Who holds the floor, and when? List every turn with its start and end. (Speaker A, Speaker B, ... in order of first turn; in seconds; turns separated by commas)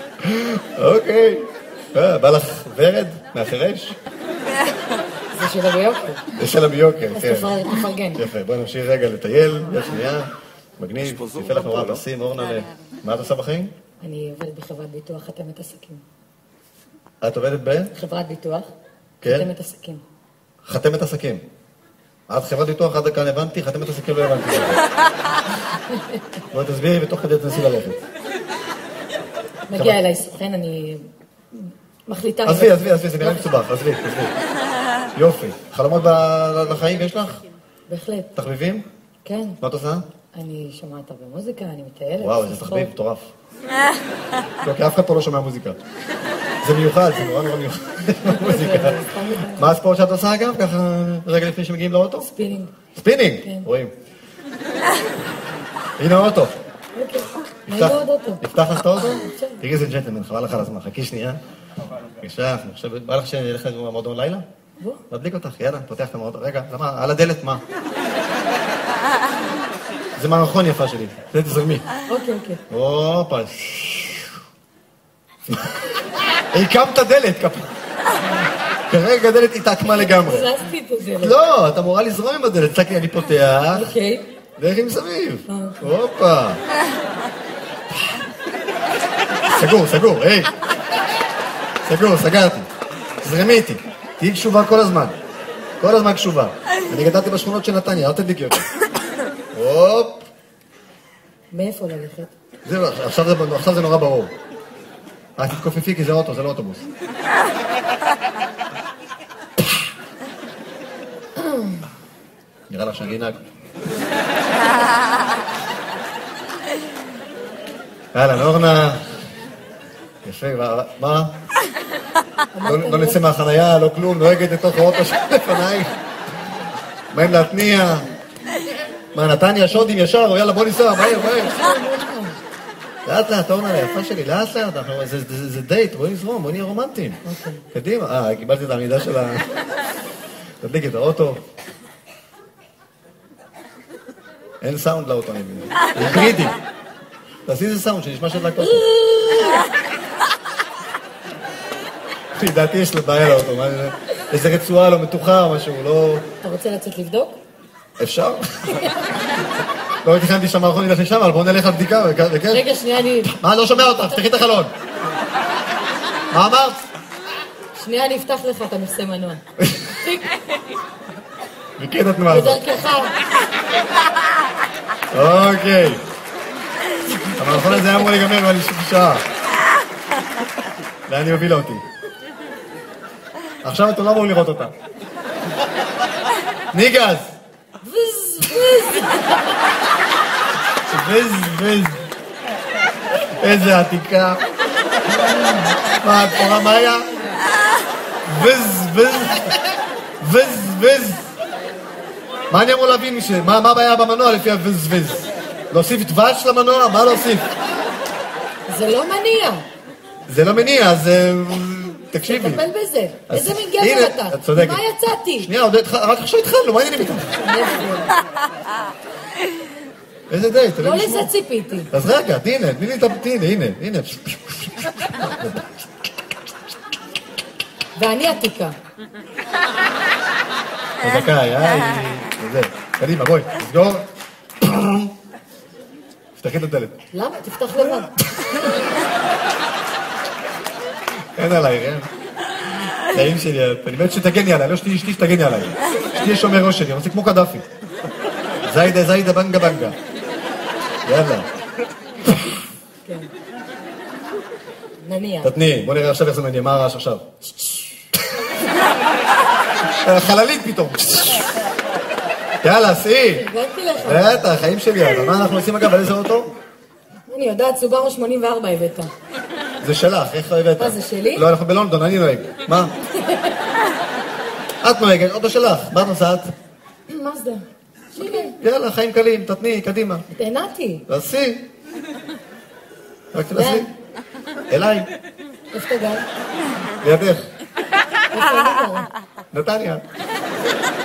Speaker A: 0.2-4.0, Speaker B: 5.3-6.3, Speaker A: 6.4-7.6, Speaker B: 7.1-8.3, Speaker A: 8.2-13.7, Speaker B: 14.0-16.0, Speaker A: 17.2-17.9, Speaker B: 17.9-18.7, Speaker A: 19.2-19.5, Speaker B: 19.3-20.0, Speaker A: 20.6-21.4, Speaker A: 22.3-24.8, Speaker A: 26.5-28.0, Speaker B: 29.7-33.6, Speaker A: 29.7-30.0, Speaker A: 32.5-34.3, Speaker A: 35.2-37.4, Speaker B: 37.9-38.3, Speaker A: 38.4-38.9, Speaker B: 39.2-39.6, Speaker A: 39.6-40.0, Speaker B: 40.3-42.9, Speaker A: 42.2-43.3, Speaker A: 44.6-45.8, Speaker A: 46.6-52.3, Speaker B: 48.3-49.8, Speaker B: 52.2-52.7, Speaker A: 53.0-53.9, Speaker A: 56.0-56.5, Speaker B: 57.0-58.4, Speaker A: 57.7-61.4, Speaker B: 59.0-59.6, Speaker A: 62.2-64.5, Speaker A: 65.1-67.6, Speaker A: 70.2-71.8, Speaker B: 72.1-72.6, Speaker A: 72.7-74.3, Speaker A: 76.5-77.7, Speaker A: 78.9-80.5, Speaker B: 79.9-81.4, Speaker A: 81.2-83.9, Speaker B: 83.8-84.2, Speaker A: 84.6-86.6, Speaker B: 85.5-85.9, Speaker A: 89.5-90.5, Speaker A: 91.8-92.7, Speaker A: 93.2-95.2, Speaker A: 95.8-98.7, Speaker A: 99.5-100.2, Speaker B: 101.5-102.3, Speaker A: 102.7-104.3, Speaker A: 105.4-106.9, Speaker B: 111.4-111.8, Speaker A: 112.7-113.4, Speaker A: 118.1-119.1, Speaker A: 120.2-121.4, Speaker B: 122.5-123.2, Speaker A: 122.6-125.9, Speaker A: 127.1-128.1, Speaker A: 129.1-131.6, Speaker B: 131.2-132.4, Speaker A: 133.1-137.2, Speaker B: 137.2-137.6, Speaker A: 137.7-139.5, Speaker A: 140.6-141.4, Speaker A: 144.6-146.6, Speaker A: 147.5-148.8, Speaker B: 148.6-149.6, Speaker A: 152.3-156.2, Speaker B: 156.4-157.4, Speaker A: 158.0-158.9, Speaker A: 160.0-162.6, Speaker B: 162.5-163.3, Speaker A: 163.2-164.7, Speaker A: 166.3-166.8, Speaker B: 167.8-169.4, Speaker A: 169.6-169.9, Speaker B: 169.9-170.3, Speaker A: 171.8-172.6, Speaker B: 172.3-173.1, Speaker A: 175.1-176.0, Speaker A: 177.4-179.2, Speaker A: 181.1-181.8, Speaker A: 183.6-184.7, Speaker A: 186.7-187.3, Speaker B: 187.8-189.3, Speaker A: 190.9-192.0, Speaker A: 193.4-194.4, Speaker A: 195.9-197.1, Speaker A: 198.3-199.5, Speaker A: 200.2-201.2, Speaker A: 202.5-207.5, Speaker B: 208.7-209.6, Speaker A: 210.3-212.6, Speaker B: 212.3-215.5, Speaker A: 213.3-214.8, Speaker A: 215.4-217.3, Speaker B: 217.4-218.1, Speaker A: 220.3-221.3, Speaker B: 220.8-221.9, Speaker A: 221.9-225.6, Speaker B: 227.9-228.8, Speaker A: 231.0-234.1, Speaker A: 234.6-235.1, Speaker A: 236.4-236.9, Speaker B: 237.1-238.1, Speaker A: 241.4-242.1, Speaker A: 243.1-247.7, Speaker A: 248.6-250.0, Speaker A: 251.1-251.5, Speaker B: 253.1-253.3, Speaker B: 255.0-255.5, Speaker A: 255.4-257.2, Speaker B: 257.4-258.0, Speaker A: 260.0-261.4, Speaker A: 262.6-263.4, Speaker B: 263.3-264.5, Speaker A: 264.0-266.5, Speaker B: 267.3-269.1, Speaker A: 269.8-272.9, Speaker B: 270.8-271.4, Speaker B: 273.2-273.6, Speaker A: 274.8-276.5, Speaker B: 277.1-278.6, Speaker A: 278.6-280.2, Speaker B: 280.3-281.1, Speaker A: 281.1-281.6, Speaker A: 283.3-283.9, Speaker B: 283.6-283.9, Speaker A: 284.7-285.1, Speaker B: 285.7-286.3, Speaker A: 287.0-287.5, Speaker B: 288.3-289.1, Speaker A: 289.5-290.0